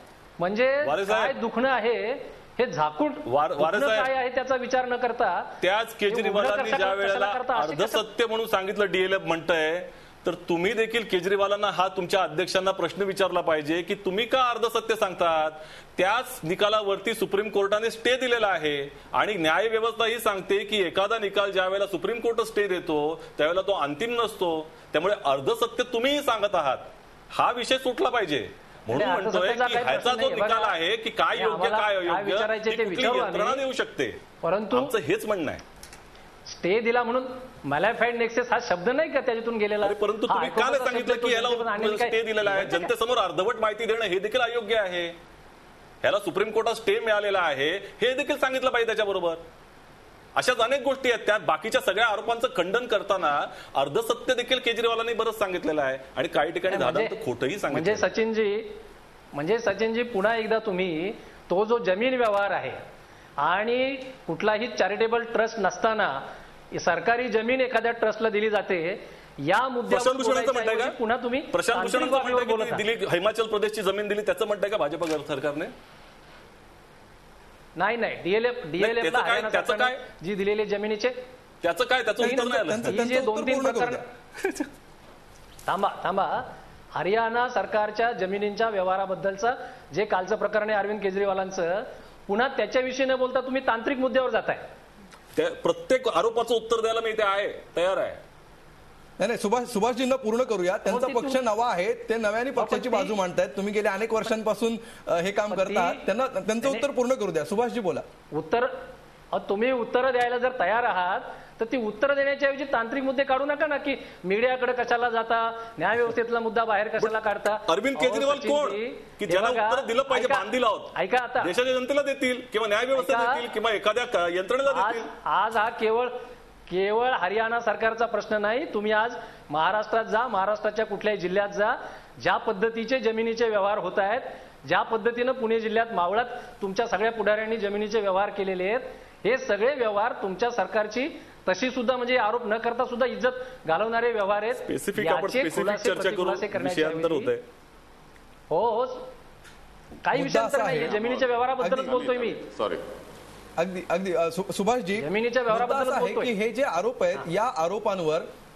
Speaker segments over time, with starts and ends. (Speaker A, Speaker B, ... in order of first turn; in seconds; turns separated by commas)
Speaker A: 0.4-5.5, Speaker B: 0.8-1.3, Speaker B: 3.2-4.1, Speaker B: 5.6-34.2, Speaker A: 6.1-8.0, Speaker A: 28.9-30.8, Speaker A: 31.3-33.6, Speaker A: 34.4-34.9, Speaker B: 34.7-35.6, Speaker A: 36.5-42.9, Speaker B: 39.8-45.1, Speaker B: 46.0-49.4, Speaker B: 50.3-58.0, Speaker A: 56.7-57.1, Speaker A: 57.7-58.7, Speaker A: 59.3-62.8, Speaker A: 63.4-66.2, Speaker A: 66.7-72.8, Speaker B: 69.9-71.0, Speaker B: 71.5-75.7, Speaker A: 77.8-81.1, Speaker B: 78.8-80.0, Speaker B: 81.6-83.1, Speaker C: 82.2-84.0, Speaker A: 82.2-84.0, Speaker A: 85.7-94.6, Speaker B: 95.3-98.2, Speaker C: 99.2-108.0, Speaker A: 100.9-101.4, Speaker A: 102.6-103.1, Speaker A: 105.5-106.0, Speaker A: 108.3-108.7, Speaker A: 109.3-121.5, Speaker B: 117.0-125.1, Speaker A: 122.9-123.5, Speaker A: 124.7-126.1, Speaker A: 126.7-147.3, Speaker B: 144.6-147.4, Speaker A: 148.5-149.1, Speaker A: 150.0-152.4, Speaker C: 150.1-151.0, Speaker D: 150.8-152.8, Speaker C: 151.6-151.9, Speaker C: 153.6-158.2, Speaker A: 155.0-156.3